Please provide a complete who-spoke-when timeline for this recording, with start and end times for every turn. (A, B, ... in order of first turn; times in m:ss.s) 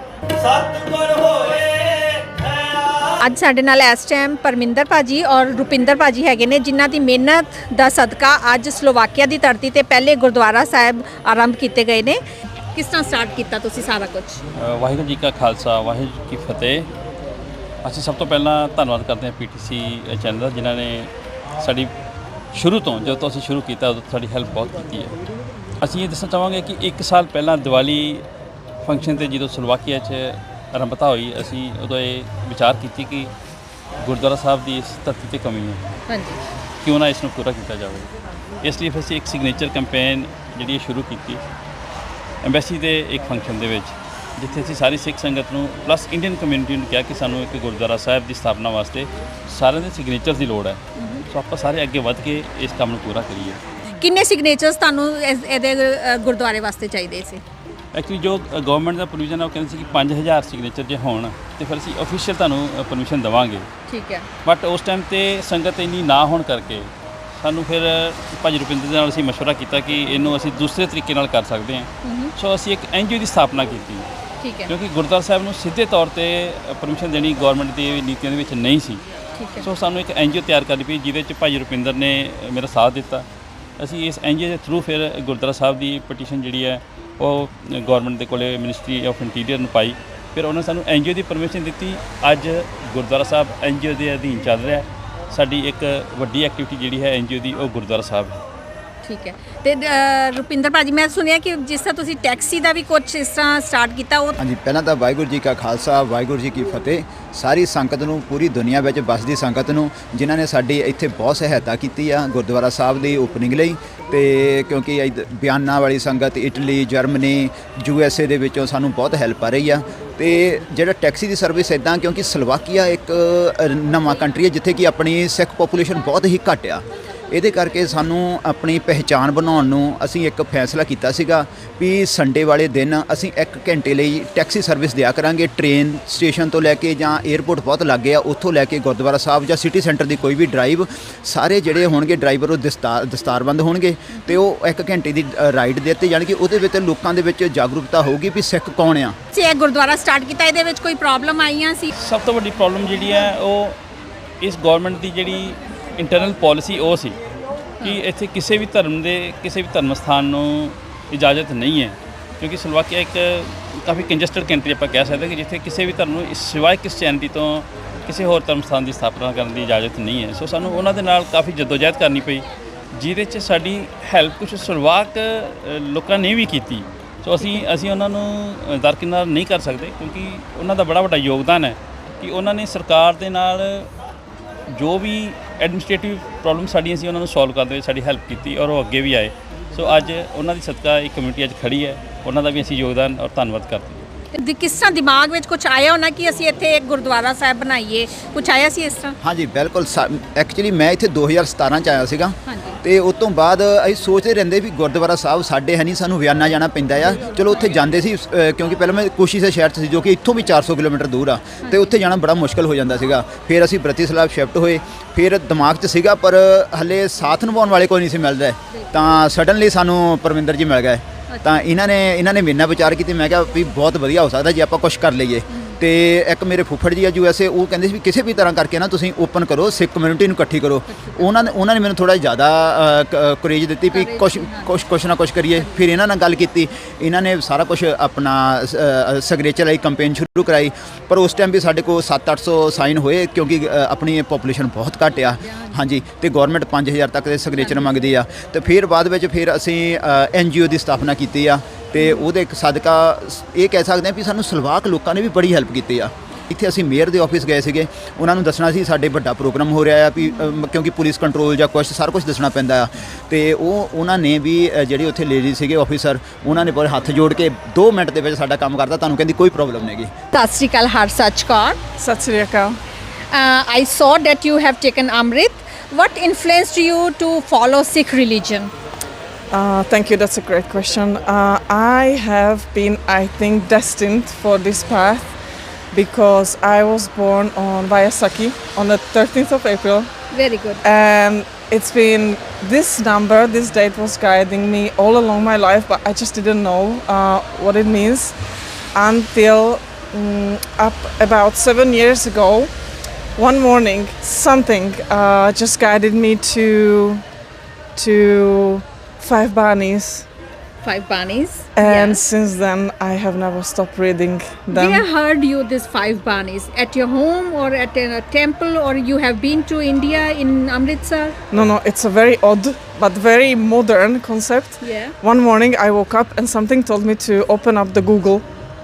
0:00.4-0:02.9 A
0:03.2-0:12.2 B
0:12.7-0:14.4 B
0:14.6-0:16.9 C
0:17.8-0:21.9 C
0:22.5-0:25.1 C
0:25.8-0:28.2 C
0:28.8-0:33.3 C
0:34.0-0:35.8 C
0:36.1-0:36.4 B
0:36.8-0:38.1 C
0:38.6-0:41.4 C
0:42.4-0:53.6 C
0:51.0-0:51.2 B
0:53.9-0:57.4 B
0:57.9-1:03.7 C
1:03.9-1:04.3 B
1:04.4-1:14.1 C
1:12.0-1:12.3 B
1:14.4-1:14.7 B
1:14.7-1:19.0 C
1:19.3-1:19.6 B
1:19.6-1:23.2 C
1:23.8-1:38.4 C
1:39.0-1:44.4 B
1:44.4-2:29.2 D
2:29.3-2:31.9 B
2:32.0-2:33.8 C
2:34.4-2:37.2 C
2:37.8-3:03.9 C
3:04.7-3:14.0 C
3:14.3-3:19.2 B
3:19.2-4:30.1 D
3:22.4-3:22.8 B
3:31.6-3:31.9 B
3:41.3-3:41.7 B
3:50.9-3:51.3 B
3:53.9-3:54.7 B
4:07.6-4:07.9 B
4:12.0-4:12.2 B
4:30.3-4:31.8 B
4:32.0-4:32.8 E
4:33.3-4:38.7 B
4:39.5-4:45.3 E
4:45.9-4:50.1 E
4:50.3-4:50.8 B
4:50.8-4:58.4 E
4:58.9-5:02.7 E
5:03.4-5:07.2 E
5:08.0-5:10.2 E
5:10.8-5:12.2 B
5:11.8-5:15.0 E
5:14.7-5:21.3 B
5:21.5-5:28.4 E
5:24.8-5:25.1 B